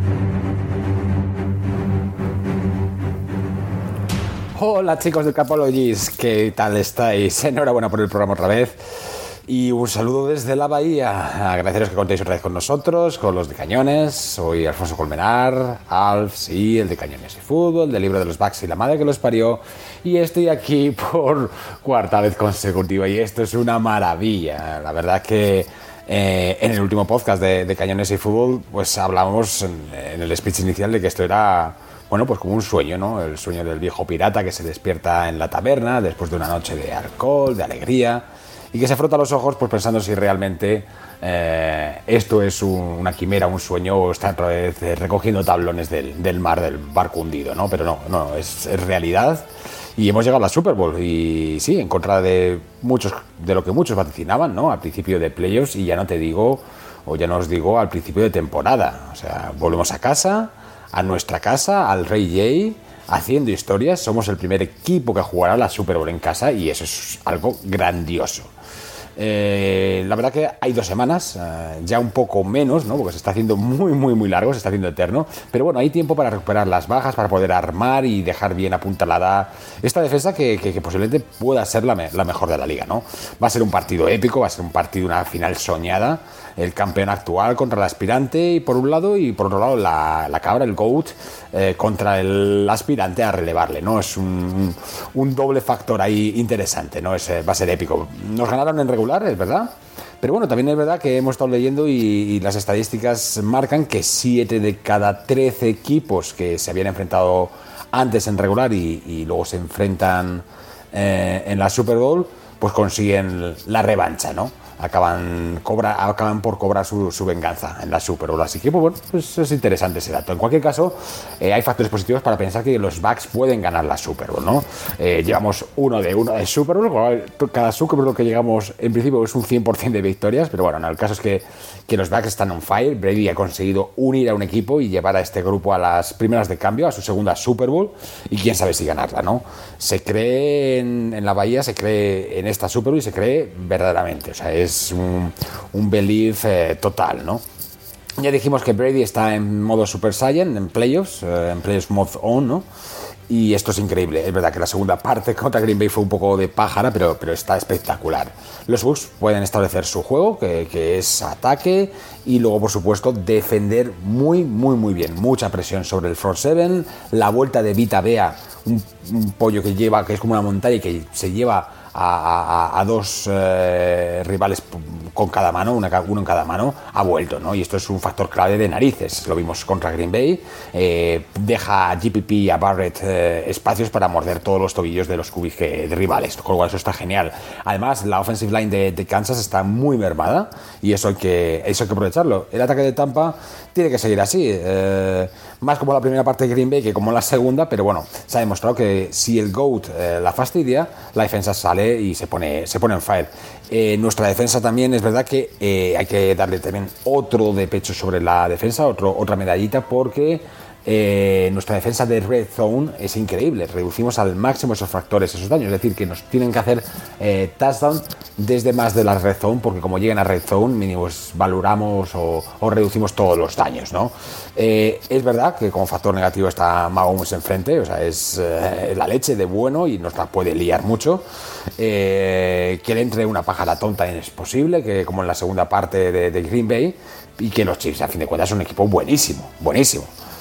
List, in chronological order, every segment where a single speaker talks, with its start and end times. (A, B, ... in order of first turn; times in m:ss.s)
0:04.6-0:49.4 A
0:50.0-1:08.5 A
1:09.2-2:27.4 A
2:28.2-2:32.7 A
2:33.3-3:51.2 A
3:51.8-4:00.1 A